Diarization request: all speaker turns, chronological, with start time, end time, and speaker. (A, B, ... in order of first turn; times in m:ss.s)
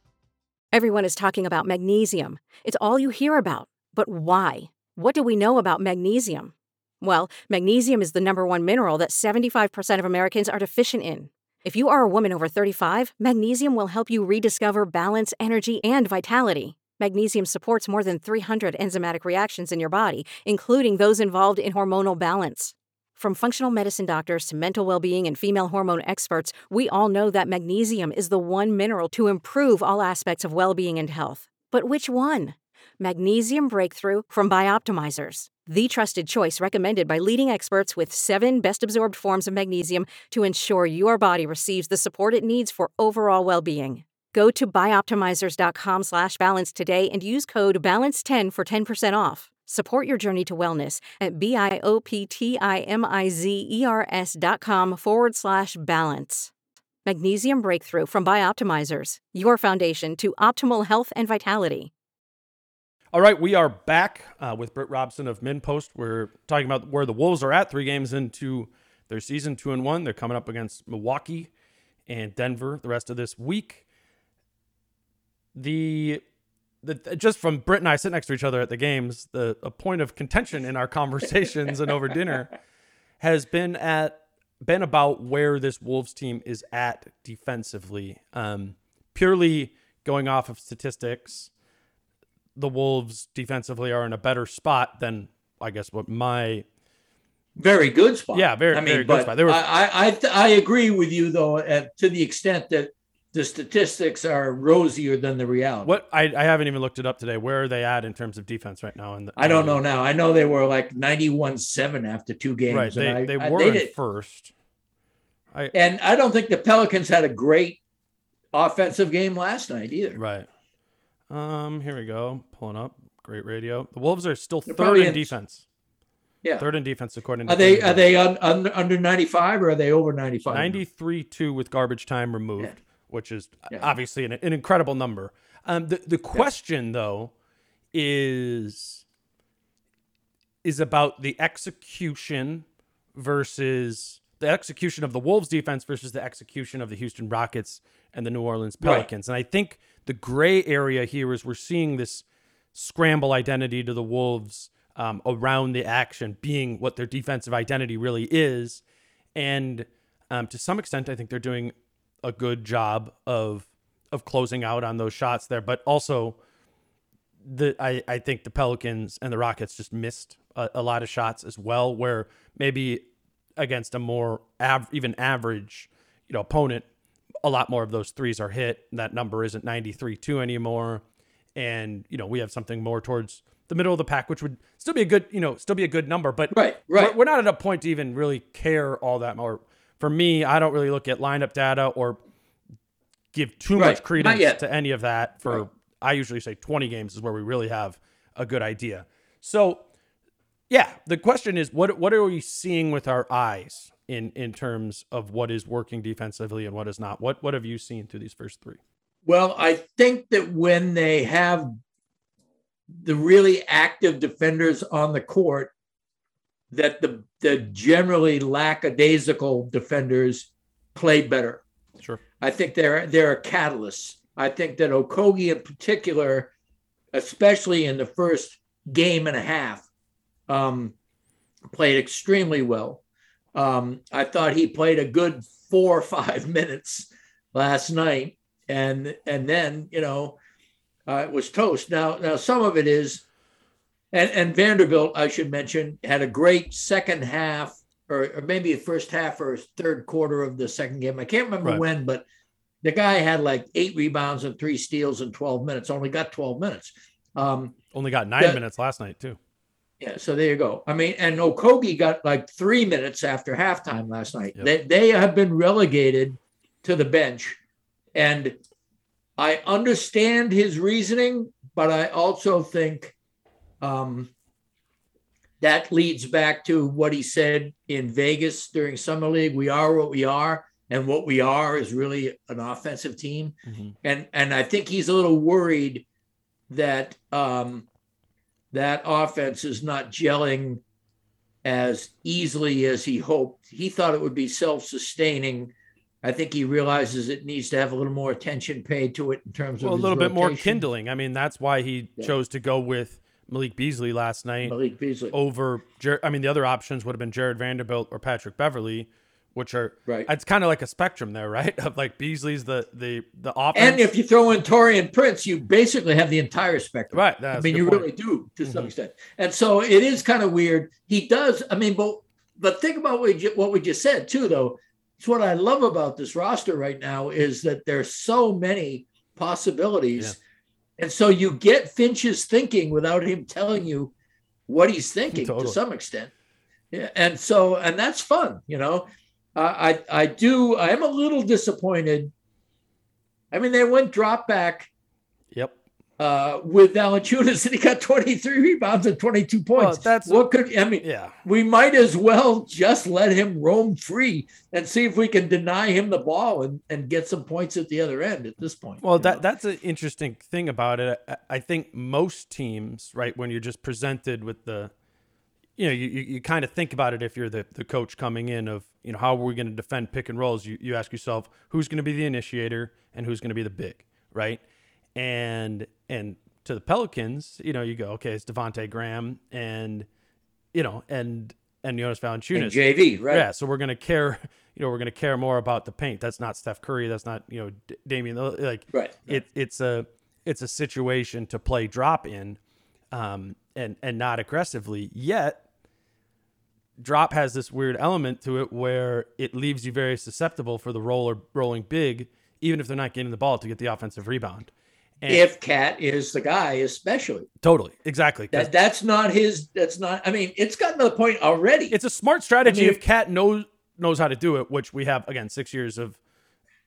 0:00.7-0:56.5 A
0:57.0-1:01.9 A
1:03.1-1:11.5 B
1:12.1-1:13.8 B
1:15.5-1:16.2 B
1:16.8-1:22.5 B
1:23.2-1:31.5 B
1:32.6-1:36.6 B
1:37.6-1:46.0 C
1:38.3-1:39.6 B
1:45.8-1:49.8 B
1:49.4-1:53.9 C
1:52.7-1:54.5 B
1:55.7-1:57.8 C
1:58.5-2:00.2 C
2:00.2-2:00.5 B
2:01.3-2:05.6 B
2:04.7-2:05.3 C
2:06.6-2:08.0 B
2:07.5-2:10.8 C
2:10.5-2:17.3 B
2:17.9-2:19.0 B
2:20.6-2:38.8 B
2:28.8-2:29.1 C
2:39.3-2:46.4 B
2:47.4-2:53.0 B
2:53.6-2:56.8 B
2:57.4-3:01.0 B
3:01.6-3:12.2 B
3:06.5-3:07.1 C
3:13.3-3:19.8 B
3:13.8-3:14.6 C
3:20.7-3:28.8 B
3:29.2-3:31.7 C
3:33.0-3:35.7 C
3:36.7-3:41.6 C
3:42.4-3:46.5 C
3:47.1-3:49.8 C
3:50.5-3:50.9 C
3:51.7-3:53.0 C
3:53.5-4:00.4 C
4:01.1-4:03.2 C
4:04.1-4:12.2 C
4:12.8-4:17.7 C
4:17.9-4:19.4 B
4:20.0-4:27.6 C
4:28.1-4:28.6 C
4:29.4-4:33.1 C
4:33.8-4:34.3 C
4:35.6-4:46.0 C
4:43.7-4:43.9 B
4:46.7-4:47.8 C
4:48.7-4:50.8 C
4:51.6-4:55.7 C
4:56.2-5:00.8 C
4:59.8-5:04.7 B
5:04.6-5:05.3 C
5:05.3-5:14.0 B
5:13.7-5:30.4 C
5:17.1-5:18.1 B
5:31.0-5:34.1 C
5:34.7-5:36.3 C
5:35.3-5:35.8 B
5:36.9-5:42.3 C
5:43.5-5:44.9 C
5:46.2-5:59.4 C
5:49.8-5:50.4 B
5:51.0-5:51.4 B
5:59.0-6:04.9 B
6:05.8-6:14.6 B
6:15.2-6:20.1 B
6:20.7-6:32.6 B
6:22.5-6:23.4 C
6:28.9-6:29.3 C
6:33.1-6:35.6 B
6:37.0-6:45.4 B
6:45.3-6:47.5 C
6:47.6-6:48.7 B
6:48.5-6:51.9 C
6:51.9-6:56.2 B
6:52.6-6:53.0 C